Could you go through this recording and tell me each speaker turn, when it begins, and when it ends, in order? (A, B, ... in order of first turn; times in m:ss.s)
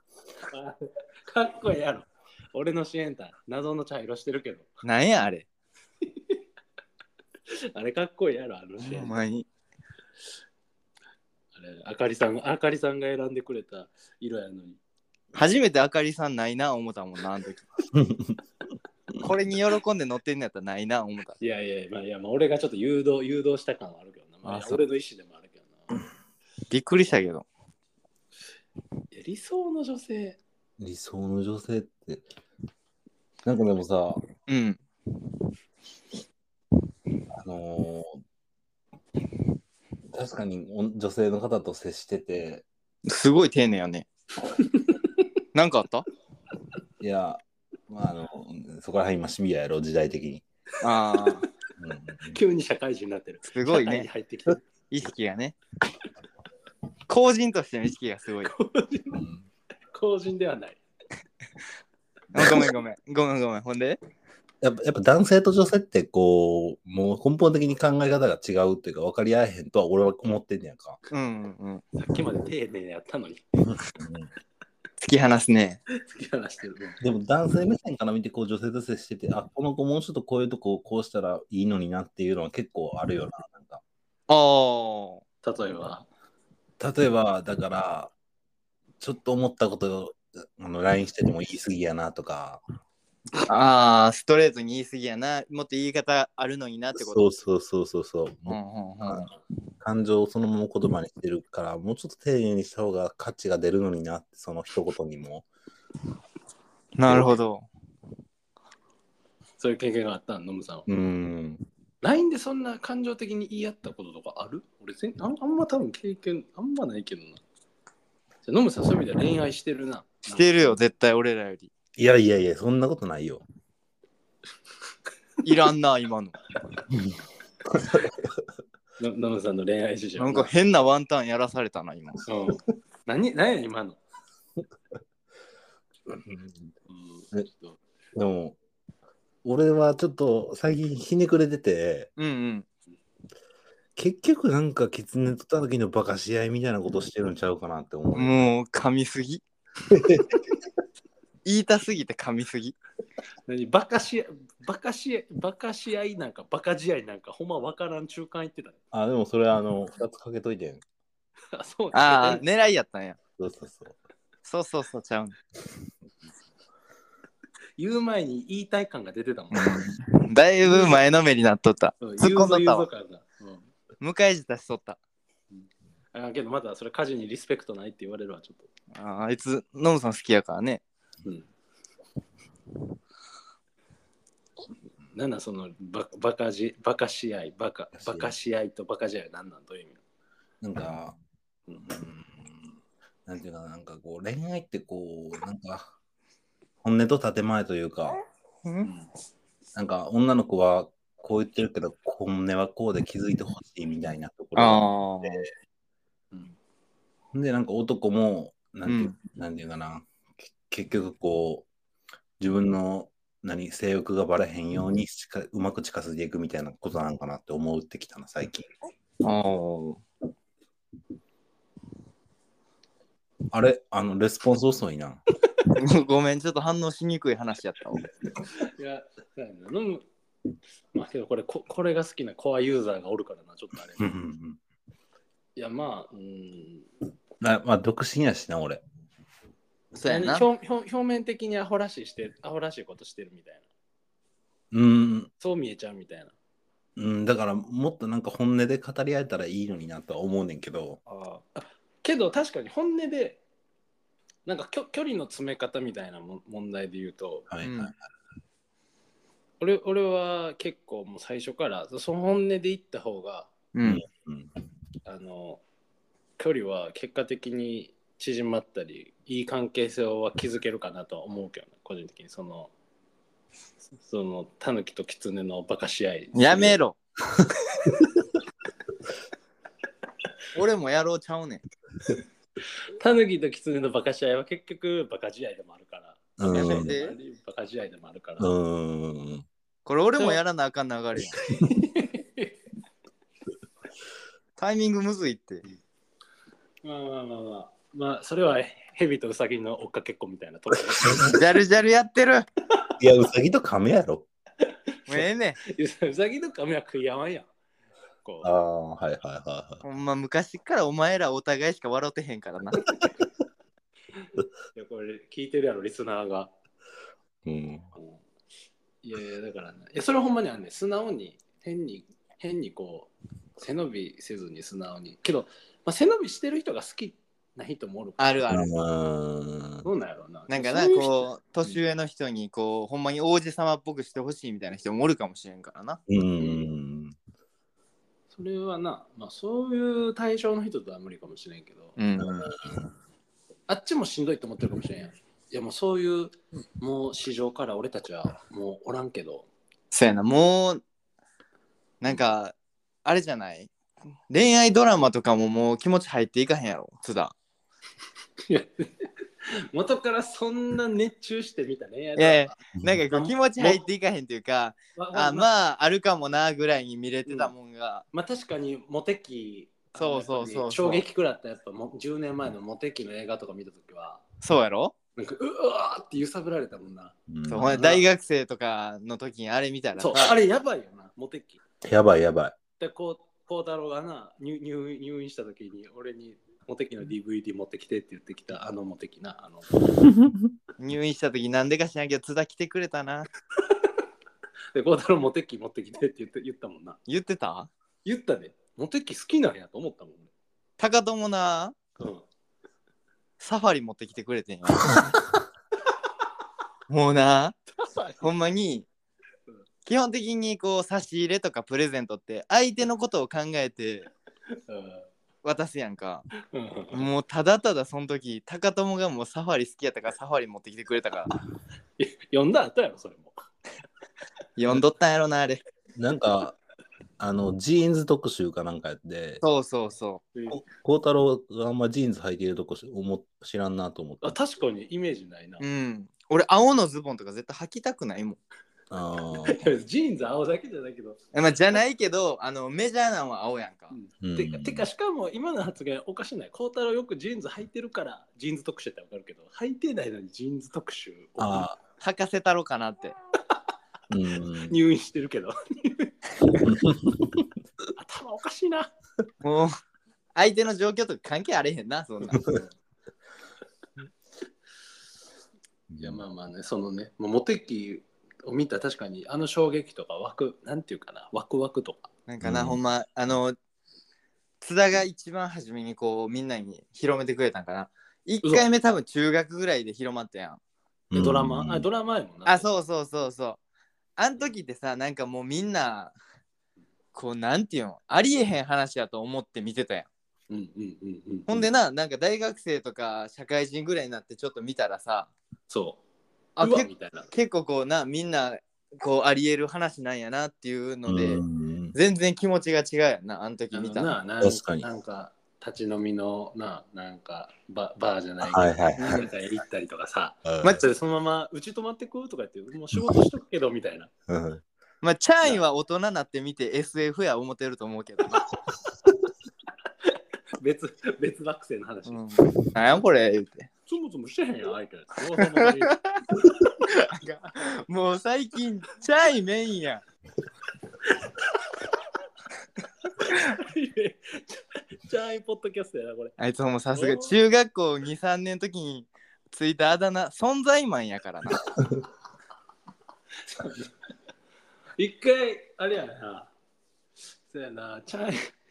0:00.5-0:04.7 A
0:04.8-0:05.5 B
0:07.5-0:09.2 A
0:08.8-0:09.5 B
0:11.5-0:14.8 A
0:15.3-0:17.6 B
0:17.9-0:18.4 C
0:19.2-0:21.4 B
0:21.4-0:25.9 A
0:24.4-0:24.8 B
0:26.7-0:27.4 B
0:29.1-0:30.4 A
0:30.8-0:32.2 C
0:33.4-0:34.2 C
0:34.5-0:34.8 B
0:37.3-0:38.2 C
0:40.1-0:42.6 C
0:43.0-0:44.0 B
0:44.6-0:44.9 A
0:45.5-0:46.1 B
0:47.0-0:50.4 C
0:50.8-0:51.5 B
0:51.8-0:52.4 C
0:52.3-0:54.6 A
0:53.5-0:54.1 B
0:54.9-0:55.6 B
0:57.1-0:58.5 B
0:58.4-0:59.3 A
0:59.1-0:59.4 C
0:59.9-1:00.8 A
1:02.3-1:04.0 B
1:02.4-1:02.7 C
1:04.6-1:11.0 C
1:11.1-1:11.8 B
1:11.9-1:13.4 A
1:13.7-1:14.3 C
1:15.0-1:15.8 B
1:15.9-1:17.0 A
1:17.0-1:23.8 C
1:24.3-1:25.2 B
1:25.4-1:26.1 A
1:26.8-1:28.1 C
1:29.0-1:32.6 C
1:33.4-1:37.3 B
1:37.0-1:39.3 C
1:38.5-1:39.3 B
1:39.8-1:45.4 C
1:47.0-1:47.7 B
1:47.1-1:47.4 C
1:49.6-1:50.9 A
1:50.9-1:51.6 C
1:52.0-1:57.4 A
1:58.4-2:00.8 A
2:00.3-2:01.7 B
2:02.0-2:03.4 C
2:05.4-2:06.4 B
2:06.9-2:07.2 C
2:07.7-2:08.4 C
2:09.0-2:10.5 A
2:10.2-2:12.2 B
2:12.2-2:14.0 A
2:16.1-2:16.7 C
2:16.9-2:17.8 A
2:18.1-2:18.6 C
2:19.4-2:22.1 C
2:22.2-2:22.6 B
2:24.0-2:28.5 C
2:28.1-2:29.4 B
2:29.9-2:30.4 C
2:31.4-2:32.8 B
2:33.5-2:38.8 A
2:38.9-2:40.8 C
2:41.5-2:42.4 A
2:41.9-2:43.2 B
2:43.4-2:44.0 C
2:44.4-2:45.4 B
2:47.8-2:49.8 A
2:49.5-2:52.8 B
2:50.6-2:51.0 A
2:52.0-2:53.7 A
2:54.0-2:55.0 B
2:55.5-2:58.7 A
2:58.9-3:00.8 B
3:05.1-3:10.0 A
3:08.0-3:08.3 C
3:10.6-3:11.2 C
3:11.7-3:12.2 A
3:13.2-3:15.9 C
3:16.8-3:18.2 C
3:18.6-3:18.9 B
3:18.8-3:19.1 A
3:19.7-3:25.5 C
3:24.6-3:25.4 B
3:27.3-3:31.7 C
3:28.8-3:29.1 B
3:32.4-3:38.7 C
3:39.2-3:40.0 B
3:43.5-3:45.2 C
3:45.7-3:48.1 B
3:48.5-3:50.0 A
3:50.9-3:54.1 A
3:54.0-3:54.6 C
3:55.6-3:56.9 A
3:57.4-3:58.8 C
3:59.9-4:00.5 B
4:00.0-4:03.7 A
4:04.7-4:05.3 C
4:05.4-4:06.3 A
4:07.0-4:11.0 C
4:11.1-4:11.4 B
4:11.5-4:13.4 A
4:14.4-4:17.5 A
4:17.5-4:17.9 C
4:17.6-4:17.9 B
4:19.6-4:23.5 A
4:23.7-4:24.0 B
4:23.8-4:24.5 C
4:25.0-4:25.6 A
4:26.4-4:32.7 A
4:34.0-4:36.8 A
4:36.3-4:37.0 B
4:40.5-4:41.6 B
4:43.0-4:48.5 A
4:46.4-4:46.9 C
4:46.5-4:47.1 B
4:48.4-4:49.4 C
4:49.8-4:51.4 B
4:51.6-4:52.6 A
4:54.6-4:55.6 B
4:56.8-5:01.4 A
5:01.0-5:01.4 C
5:01.3-5:02.4 B
5:03.0-5:04.3 C
5:04.6-5:07.5 A
5:05.1-5:05.6 B
5:08.2-5:08.5 A
5:08.4-5:09.8 C
5:09.8-5:12.9 B
5:14.7-5:16.5 A
5:17.4-5:17.9 C
5:19.0-5:28.4 A
5:28.2-5:28.7 B
5:28.5-5:29.9 C
5:29.8-5:31.7 A
5:30.5-5:36.0 B
5:36.1-5:37.1 C
5:36.4-5:36.7 A
5:38.3-5:42.0 A
5:42.0-5:42.5 B
5:42.2-5:42.9 C
5:43.7-5:49.5 A
5:49.9-5:50.8 B
5:52.0-5:53.7 B
5:54.3-5:57.3 B
5:58.5-6:02.6 A
6:02.2-6:08.0 B
6:03.1-6:03.8 A
6:05.0-6:05.5 A
6:07.2-6:07.5 A
6:08.1-6:14.2 A
6:10.0-6:11.0 B
6:14.4-6:14.9 B
6:15.2-6:18.0 A
6:17.3-6:17.8 C
6:17.5-6:20.4 B
6:20.0-6:21.6 A
6:21.8-6:22.6 C
6:22.8-6:29.7 A
6:30.0-6:30.5 C
6:30.8-6:33.3 B
6:34.7-6:37.0 A
6:37.1-6:37.7 B
6:38.0-6:40.3 A
6:40.8-6:41.8 B
6:42.0-6:42.2 A
6:43.4-6:45.1 B
6:46.9-6:47.6 B
6:47.8-6:48.3 A
6:48.2-6:48.9 B
6:49.8-6:54.1 B
6:54.7-6:55.1 A
6:55.4-6:56.3 B
6:56.5-6:57.1 A
6:56.9-7:01.3 B
7:02.0-7:03.4 A
7:04.6-7:05.6 B
7:06.0-7:06.6 C
7:07.2-7:09.4 C
7:09.4-7:10.2 B
7:10.3-7:10.6 A
7:10.5-7:14.4 C
7:14.2-7:15.6 A
7:15.6-7:18.4 B
7:18.9-7:19.6 C
7:19.4-7:21.2 A
7:21.3-7:23.9 B
7:23.9-7:31.7 A
7:24.2-7:24.8 C
7:31.4-7:31.8 C
7:32.0-7:33.1 B
7:34.1-7:34.8 C
7:34.5-7:36.7 A
7:36.6-7:37.5 C
7:38.0-7:38.9 A
7:39.4-7:39.8 B
7:40.3-7:42.6 B
7:42.4-7:42.7 A
7:45.9-7:46.2 C
7:46.0-7:52.1 A
7:52.3-7:53.6 B
7:52.4-7:52.8 C
7:54.6-8:00.6 B
8:01.1-8:01.8 C
8:01.1-8:02.7 A
8:02.5-8:03.6 B
8:04.2-8:06.1 B
8:07.1-8:10.1 B
8:10.5-8:11.7 A
8:11.5-8:15.3 B
8:15.7-8:16.0 A
8:16.6-8:24.1 B
8:16.6-8:17.3 A
8:21.0-8:21.9 C
8:23.7-8:34.1 A
8:24.4-8:24.9 C
8:28.4-8:29.2 C
8:30.4-8:30.8 C
8:34.3-8:34.6 C
8:35.0-8:38.5 B
8:40.5-8:42.2 A
8:42.1-8:43.7 B
8:43.9-8:46.0 A
8:45.4-8:50.0 B
8:51.0-8:51.4 A
8:53.1-8:56.3 A
8:56.4-9:01.7 B
8:56.9-8:57.3 A
9:03.4-9:03.9 A
9:05.0-9:06.5 A
9:07.5-9:08.4 A